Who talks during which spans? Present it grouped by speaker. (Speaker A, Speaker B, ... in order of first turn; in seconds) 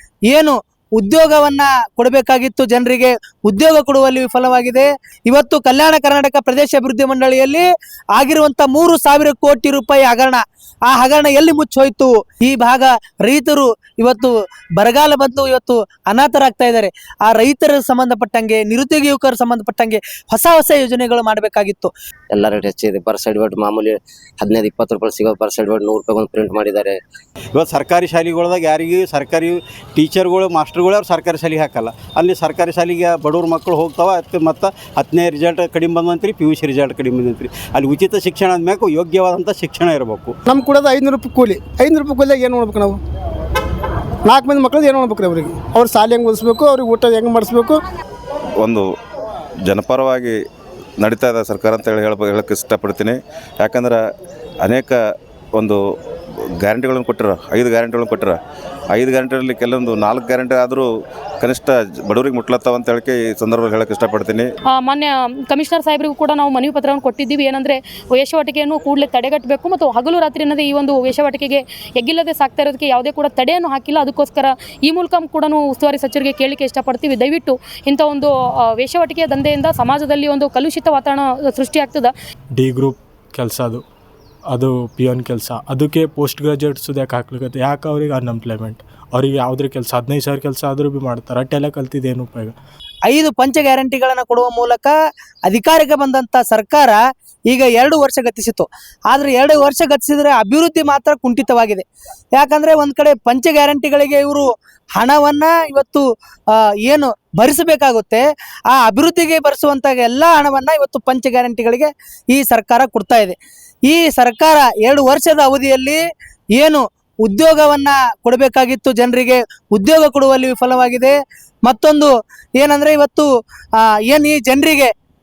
Speaker A: 0.3-7.6, 8.1-21.9, 93.1-95.0, 95.5-101.8, 102.3-106.0, 106.5-113.3, 113.9-116.0, 116.5-123.2, 123.8-124.9
Speaker B: 22.3-27.0
Speaker C: 27.5-40.3
Speaker D: 40.5-43.0, 44.2-47.8
Speaker E: 48.6-48.9, 49.6-50.4, 51.0-54.0, 54.6-55.0, 56.6-58.4, 58.9-60.9, 61.4-64.5
Speaker F: 64.8-82.1
Speaker G: 82.5-83.8, 84.5-92.5